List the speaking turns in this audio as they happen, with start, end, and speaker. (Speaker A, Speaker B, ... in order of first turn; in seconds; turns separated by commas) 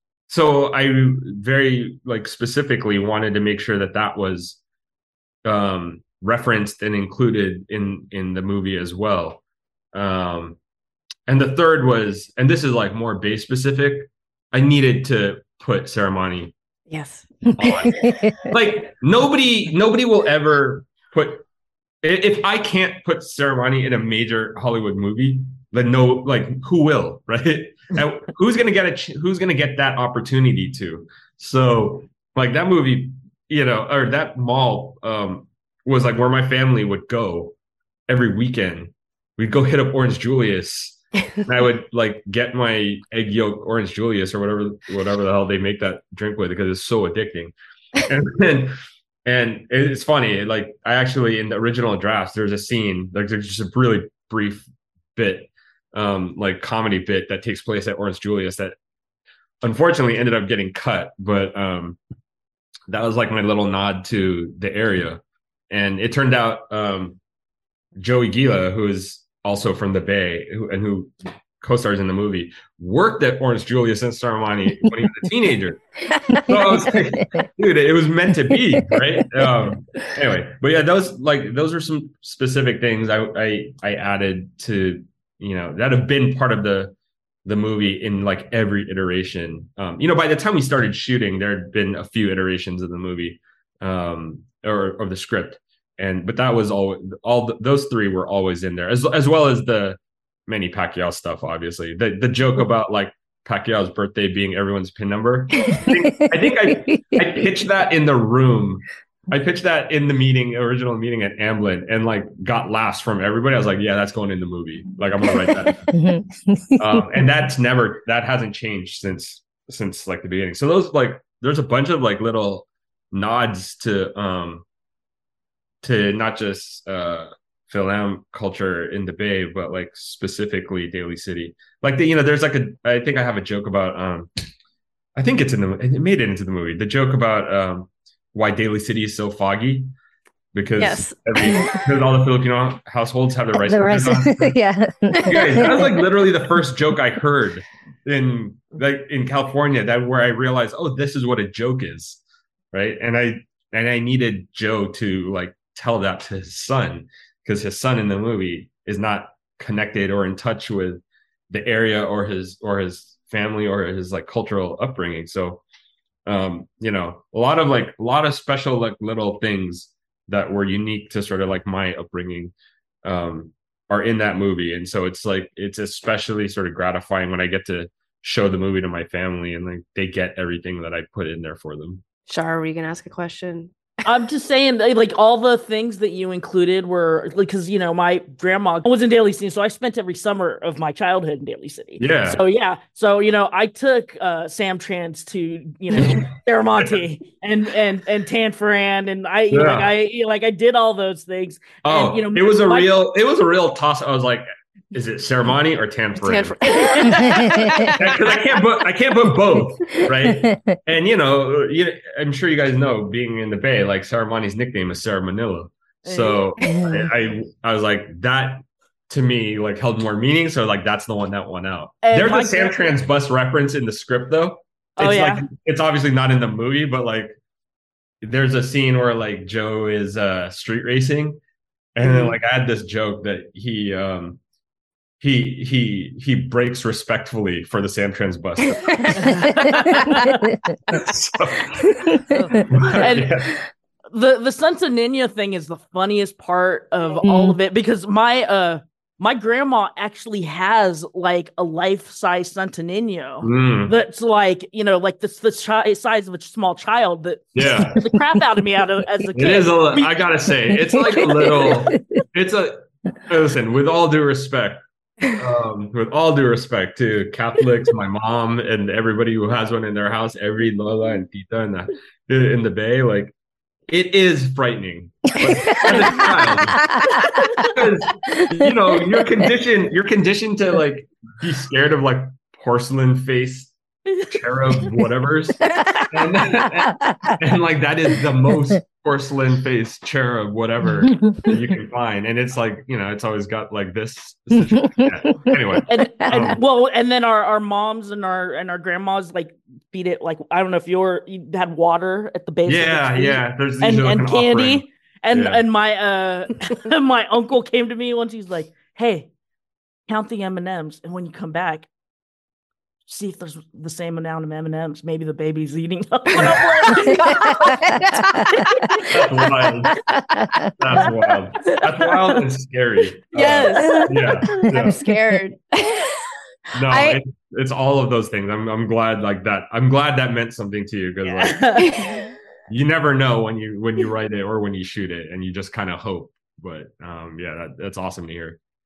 Speaker A: 0.3-4.6, Speaker A: 5.4-9.4, Speaker A: 9.9-10.6, Speaker A: 11.3-16.5, Speaker B: 16.9-17.9, Speaker A: 17.6-21.5, Speaker C: 18.0-18.5, Speaker A: 22.0-37.5, Speaker A: 38.1-47.5, Speaker A: 48.0-58.8, Speaker A: 59.6-62.0, Speaker A: 62.9-67.2, Speaker A: 68.0-75.8, Speaker A: 76.4-115.9, Speaker C: 76.5-77.2, Speaker C: 115.9-117.0, Speaker A: 116.8-124.7, Speaker A: 125.8-134.3, Speaker A: 135.2-139.9, Speaker A: 140.5-144.6, Speaker B: 140.8-142.0, Speaker C: 143.6-145.8, Speaker B: 145.2-145.9, Speaker A: 145.2-152.2, Speaker A: 152.7-165.6, Speaker A: 166.3-182.0, Speaker B: 182.3-184.1, Speaker D: 184.1-203.0, Speaker A: 192.0-192.4, Speaker A: 195.9-197.0, Speaker A: 199.5-199.9, Speaker A: 201.8-207.0, Speaker B: 206.2-208.6, Speaker D: 206.8-207.5, Speaker A: 207.8-227.4, Speaker C: 210.2-210.8, Speaker D: 216.1-216.5, Speaker D: 222.0-222.9, Speaker D: 225.0-225.4, Speaker A: 228.2-231.4, Speaker A: 231.9-234.4, Speaker A: 235.2-239.5, Speaker D: 239.2-239.7, Speaker A: 240.9-242.2, Speaker D: 242.3-243.3, Speaker A: 242.7-243.6, Speaker D: 244.1-261.7, Speaker C: 247.2-247.6, Speaker A: 253.4-253.9, Speaker A: 257.6-258.0, Speaker A: 259.3-273.3, Speaker A: 273.9-283.7, Speaker A: 284.3-296.6, Speaker D: 295.9-309.3, Speaker A: 302.7-305.6, Speaker D: 310.1-311.9, Speaker D: 313.1-317.8, Speaker B: 316.4-319.2, Speaker A: 319.1-320.0, Speaker A: 320.8-325.0, Speaker D: 323.4-324.1, Speaker B: 323.4-326.1, Speaker A: 326.7-331.8, Speaker B: 326.9-327.2, Speaker D: 331.4-332.0, Speaker B: 331.8-332.3, Speaker A: 332.7-338.6